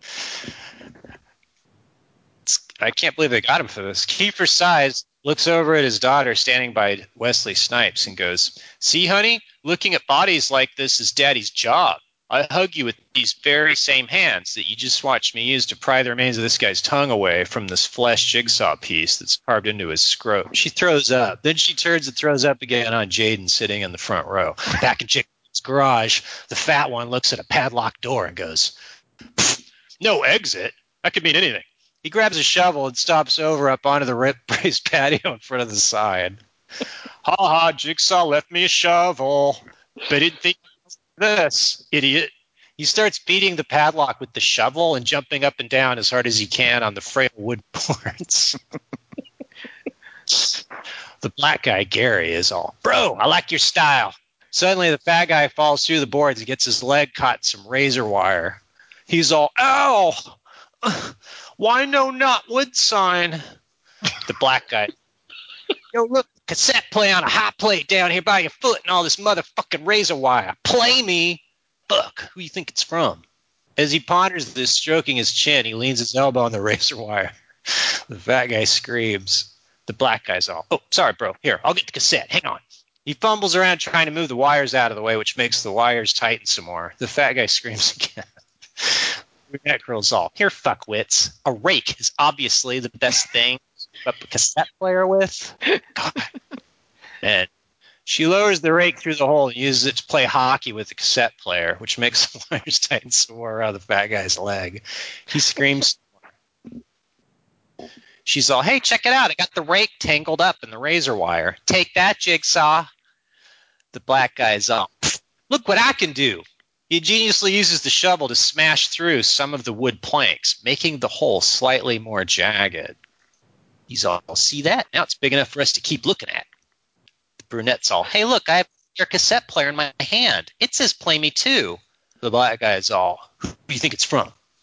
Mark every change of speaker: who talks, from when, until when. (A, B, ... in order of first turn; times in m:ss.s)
0:02.4-0:28.7 A
0:29.4-0:36.4 A
0:37.2-0:40.6 A
0:41.2-0:48.6 A
0:50.3-0:50.6 A
0:51.2-1:03.4 A
1:04.2-1:04.9 A
1:05.9-1:13.2 A
1:13.8-1:28.3 A
1:28.8-1:36.2 A
1:37.2-1:37.5 A
1:38.0-1:46.0 A
1:48.2-1:52.9 A
1:53.9-2:03.0 A
2:03.9-2:06.4 A
2:07.4-2:14.3 A